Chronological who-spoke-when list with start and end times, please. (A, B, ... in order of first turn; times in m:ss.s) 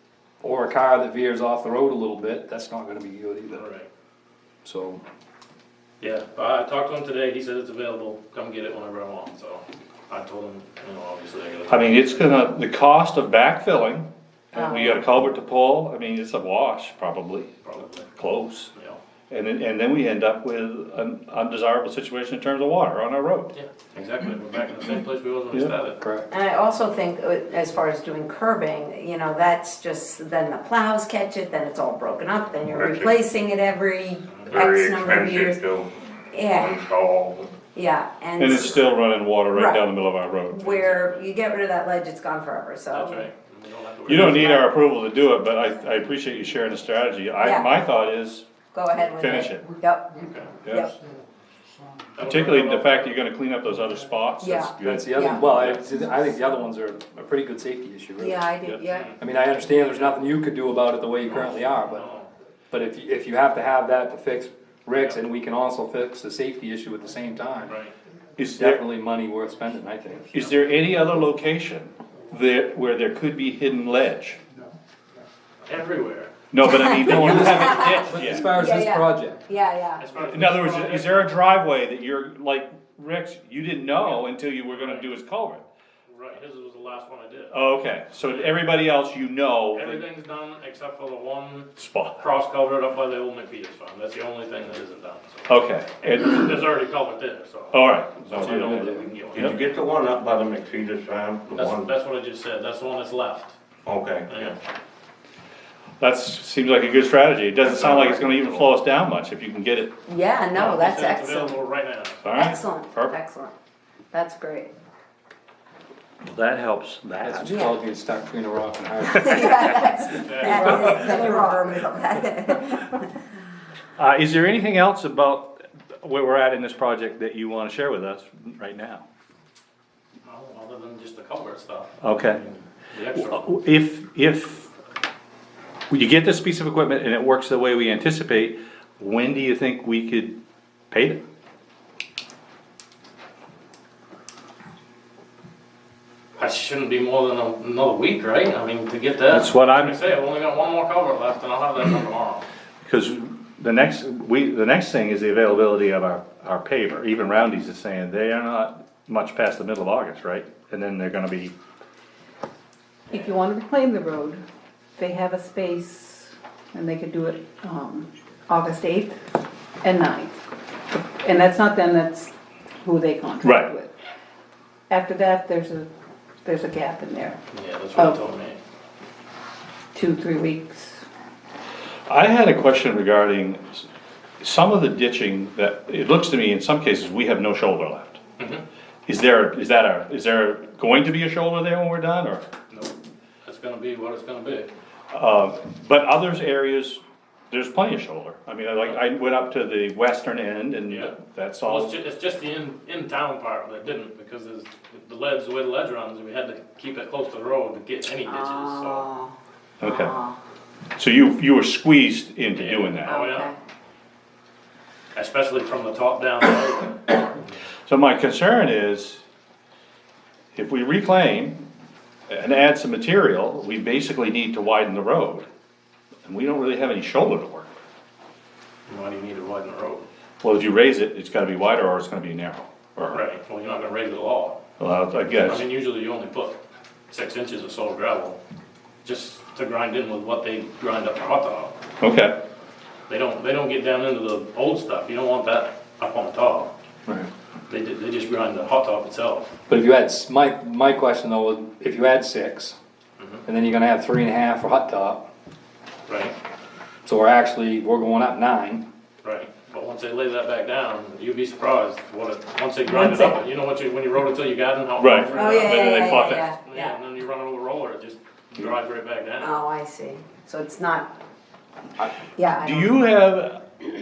0:00.4-0:03.6 A
0:03.5-0:03.9 B
0:04.6-0:05.0 A
0:06.0-0:12.5 B
0:11.7-0:17.5 C
0:14.5-0:14.9 D
0:17.6-0:18.1 B
0:18.2-0:18.7 C
0:18.7-0:19.0 B
0:19.3-0:23.5 C
0:23.5-0:26.0 B
0:26.0-0:26.3 A
0:26.3-0:35.6 D
0:32.6-0:33.2 E
0:34.3-0:34.7 B
0:34.5-0:35.9 E
0:36.3-0:36.8 D
0:36.4-0:37.6 E
0:37.7-0:39.0 D
0:38.4-0:40.7 C
0:39.5-0:39.9 D
0:40.5-0:43.3 D
0:40.6-0:41.3 B
0:42.9-0:44.7 B
0:44.1-0:48.4 C
0:44.1-0:44.7 D
0:47.4-0:47.7 D
0:48.7-0:50.1 D
0:49.1-0:49.7 C
0:50.1-0:50.6 B
0:50.6-0:50.9 C
0:50.7-0:50.9 D
0:52.1-0:53.2 B
0:52.2-0:55.8 C
0:54.4-0:55.4 D
0:54.8-0:58.4 A
0:54.8-0:55.3 E
0:58.2-0:59.1 D
0:58.8-0:59.2 B
0:59.2-1:02.0 A
0:59.8-1:00.2 B
1:01.2-1:02.3 B
1:02.7-1:07.8 A
1:07.7-1:07.9 B
1:08.4-1:08.8 C
1:08.6-1:10.3 A
1:10.3-1:14.4 C
1:15.6-1:16.3 B
1:16.5-1:18.5 C
1:16.6-1:20.6 D
1:17.1-1:19.4 A
1:20.0-1:21.4 B
1:20.3-1:25.6 C
1:24.0-1:25.1 B
1:26.1-1:27.6 B
1:27.5-1:30.0 C
1:28.2-1:28.9 B
1:29.7-1:39.6 B
1:31.8-1:32.2 C
1:35.5-1:36.5 C
1:37.7-1:39.6 C
1:38.3-1:39.1 A
1:38.4-1:38.6 E
1:39.3-1:41.9 E
1:41.5-1:43.5 B
1:43.8-1:44.5 E
1:44.3-1:44.6 B
1:46.0-1:49.9 C
1:47.6-1:48.7 B
1:50.1-1:51.6 D
1:50.5-1:52.2 B
1:52.2-1:53.1 C
1:52.3-1:53.5 D
1:54.1-1:54.7 D
1:56.2-1:57.6 C
1:57.2-1:59.7 A
1:57.4-1:57.8 D
1:59.1-2:03.0 D
2:00.1-2:01.6 B
2:00.4-2:01.5 C
2:04.0-2:05.5 C
2:06.0-2:09.0 C
2:10.2-2:13.5 B
2:12.0-2:12.4 C
2:13.2-2:14.7 C
2:15.9-2:20.4 C
2:20.9-2:21.2 C
2:26.4-2:32.4 B
2:29.3-2:30.0 C
2:32.8-2:41.5 C
2:43.1-2:44.4 F
2:45.0-2:49.2 F
2:49.8-2:50.4 F
2:50.9-2:52.3 F
2:52.8-2:53.9 F
2:53.4-2:53.7 C
2:54.9-2:55.9 F
2:56.4-2:57.4 F
2:57.5-2:58.6 B
2:59.9-3:01.0 F
3:02.1-3:03.8 C
3:04.4-3:08.2 C
3:09.1-3:12.4 C
3:12.7-3:14.7 B
3:15.1-3:22.0 C
3:20.9-3:29.0 B
3:28.2-3:30.4 D
3:29.8-3:30.1 C
3:31.0-3:33.1 C
3:32.5-3:33.5 B
3:33.0-3:33.5 D
3:35.1-3:37.5 B
3:37.9-3:39.2 C
3:40.5-3:41.6 C
3:42.3-3:45.5 C
3:46.2-3:47.7 C
3:48.9-3:50.0 B
3:50.4-3:53.2 C
3:53.1-3:54.6 B
3:54.8-3:55.6 C
3:55.4-3:56.6 B
3:57.1-3:58.4 B
3:59.0-4:01.7 B
4:02.0-4:02.3 C
4:03.1-4:06.7 B
4:07.7-4:09.5 B
4:09.7-4:12.8 A
4:13.2-4:13.4 B
4:13.4-4:15.3 A
4:16.1-4:16.4 B
4:17.0-4:18.8 A
4:19.2-4:29.6 B
4:22.8-4:23.4 D
4:25.0-4:26.5 C
4:25.3-4:27.0 D
4:29.4-4:31.1 D
4:32.3-4:33.0 D
4:32.6-4:33.6 C